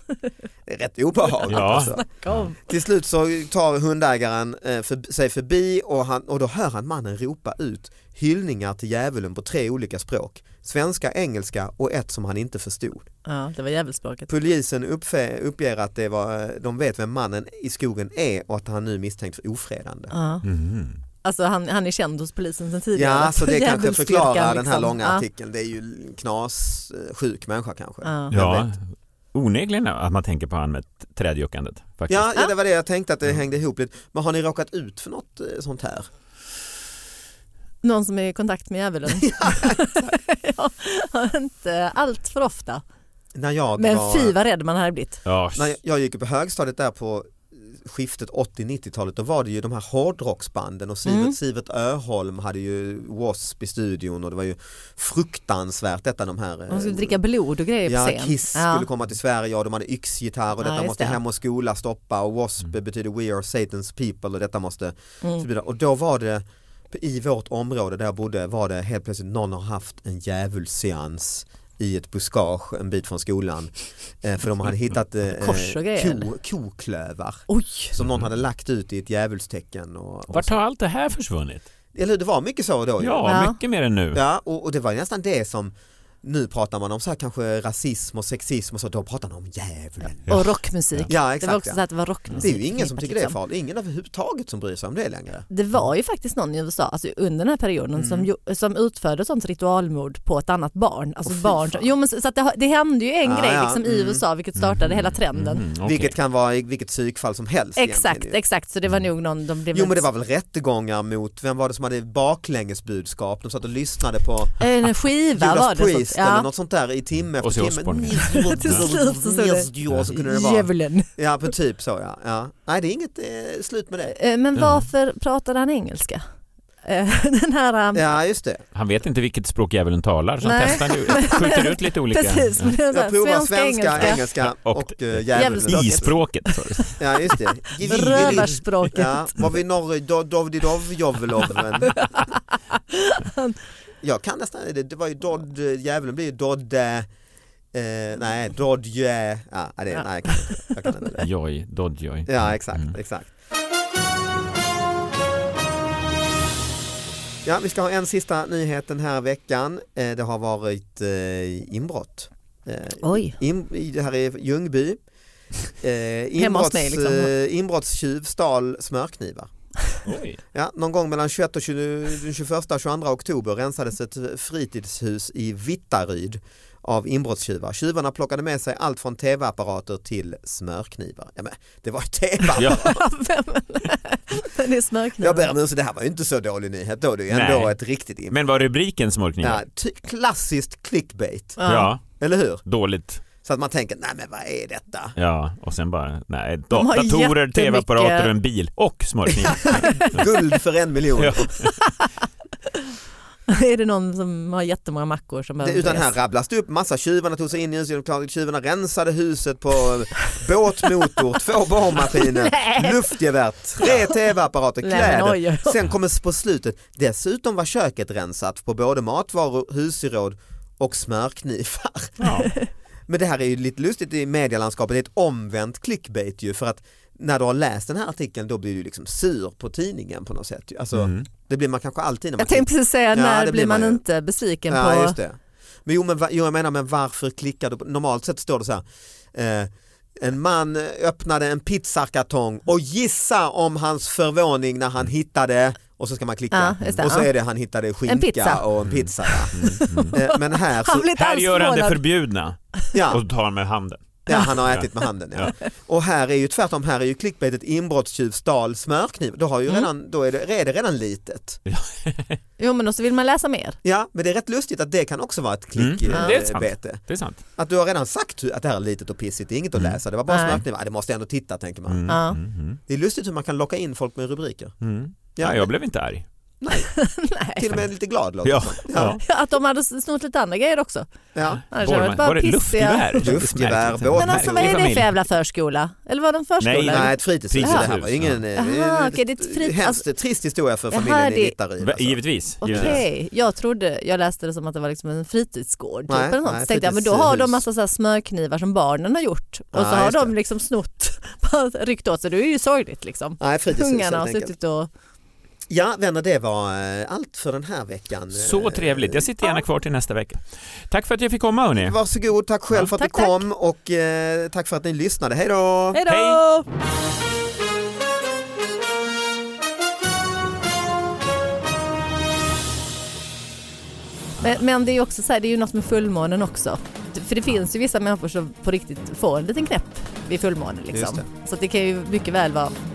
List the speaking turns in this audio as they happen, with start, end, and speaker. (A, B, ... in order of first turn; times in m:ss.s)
0:00.6-0:02.0 A
0:01.5-0:02.6 B
0:01.5-0:02.5 C
0:02.6-0:13.1 A
0:13.2-0:14.3 B
0:14.3-0:20.1 A
0:20.1-0:20.4 B
0:20.4-0:21.0 C
0:21.2-0:25.2 B
0:22.9-0:28.7 A
0:28.0-0:28.3 B
0:28.3-0:28.8 C
0:29.3-0:32.3 C
0:32.1-0:36.1 A
0:37.8-0:42.8 B
0:39.2-0:39.8 A
0:43.3-0:44.3 A
0:43.8-0:45.2 B
0:45.2-0:45.7 C
0:45.5-0:57.2 A
0:51.0-0:51.4 B
0:56.7-0:58.8 B
0:57.8-1:20.5 A
1:00.6-1:01.2 B
1:15.3-1:16.3 B
1:17.5-1:17.9 B
1:20.3-1:21.6 C
1:21.9-1:23.3 A
1:23.0-1:24.2 C
1:23.2-1:23.6 B
1:24.1-1:30.2 A
1:30.2-1:33.4 B
1:30.3-1:31.1 C
1:31.1-1:31.8 A
1:32.4-1:35.5 A
1:35.5-1:45.6 B
1:38.0-1:38.3 A
1:41.2-1:41.9 A
1:43.2-1:44.2 A
1:44.6-1:46.1 C
1:45.8-1:48.4 A
1:47.8-1:50.0 B
1:49.7-1:54.7 A
1:54.6-1:56.5 B
1:55.4-2:04.1 A
1:57.4-1:58.8 C
1:58.1-2:01.1 B
2:04.1-2:06.2 B
2:04.6-2:04.9 C
2:06.8-2:08.0 B
2:07.9-2:08.6 A
2:08.7-2:12.7 C
2:10.4-2:14.2 B
2:12.9-2:16.1 A
2:14.0-2:16.9 C
2:15.3-2:19.3 B
2:17.0-2:22.1 A
2:17.8-2:18.6 C
2:21.8-2:23.6 B
2:24.0-2:27.1 A
2:27.7-2:31.3 A
2:29.9-2:30.7 B
2:31.2-2:32.9 C
2:32.2-2:33.3 A
2:37.4-2:45.0 A
2:43.0-2:43.4 B
2:45.8-2:49.5 A
2:46.4-2:47.3 B
2:50.0-2:50.4 C
2:50.5-3:03.0 A
3:02.5-3:05.5 B
3:02.6-3:02.8 C
3:05.2-3:08.4 A
3:07.3-3:07.8 C
3:08.3-3:09.6 C
3:09.4-3:11.6 A
3:11.6-3:11.9 B
3:11.7-3:13.2 C
3:12.2-3:12.6 A
3:13.4-3:15.2 A
3:15.2-3:20.3 C
3:16.7-3:18.3 B
3:19.5-3:21.5 A
3:19.7-3:20.1 B
3:21.2-3:21.7 C
3:21.6-3:22.1 B
3:23.5-3:26.1 B
3:25.6-3:42.2 A
3:32.2-3:33.1 B
3:34.8-3:35.8 B
3:42.2-3:42.5 C
3:43.1-3:54.0 A
3:50.9-3:51.3 C
3:52.4-3:55.2 B
3:54.7-4:11.1 A
4:06.5-4:07.3 B
4:08.1-4:08.6 B
4:08.8-4:10.2 C
4:09.2-4:12.0 B
4:11.2-4:15.5 C
4:12.9-4:13.2 A
4:14.3-4:21.6 A
4:21.7-4:22.4 C
4:22.6-4:23.8 B
4:23.8-4:27.0 A
4:25.8-4:27.4 C
4:26.1-4:26.4 B
4:27.6-4:32.1 A
4:30.3-4:30.6 B
4:31.9-4:32.8 C
4:32.1-4:32.4 B
4:32.9-4:34.7 A
4:34.8-4:36.2 C
4:35.4-4:35.7 A
4:36.6-4:36.9 A
4:36.9-4:37.7 B
4:37.6-4:39.2 A
4:38.4-4:39.2 C
4:39.0-4:41.1 B
4:41.3-4:41.6 A
4:41.7-4:45.1 C
4:41.7-4:43.4 B
4:43.2-4:44.8 A
4:44.2-4:47.9 B
4:46.6-4:48.4 C
4:46.9-4:53.0 A
4:48.5-4:50.0 B
4:50.9-4:51.5 B
4:51.8-4:53.0 C
4:52.6-5:04.9 B
4:56.1-4:57.6 A
4:59.7-5:00.3 A
5:03.4-5:04.5 A
5:05.7-5:09.2 A
5:08.3-5:12.0 C
5:11.8-5:16.0 A
5:12.9-5:13.4 B
5:15.9-5:16.6 B
5:16.1-5:16.4 C
5:24.4-5:32.8 B
5:30.9-5:31.3 A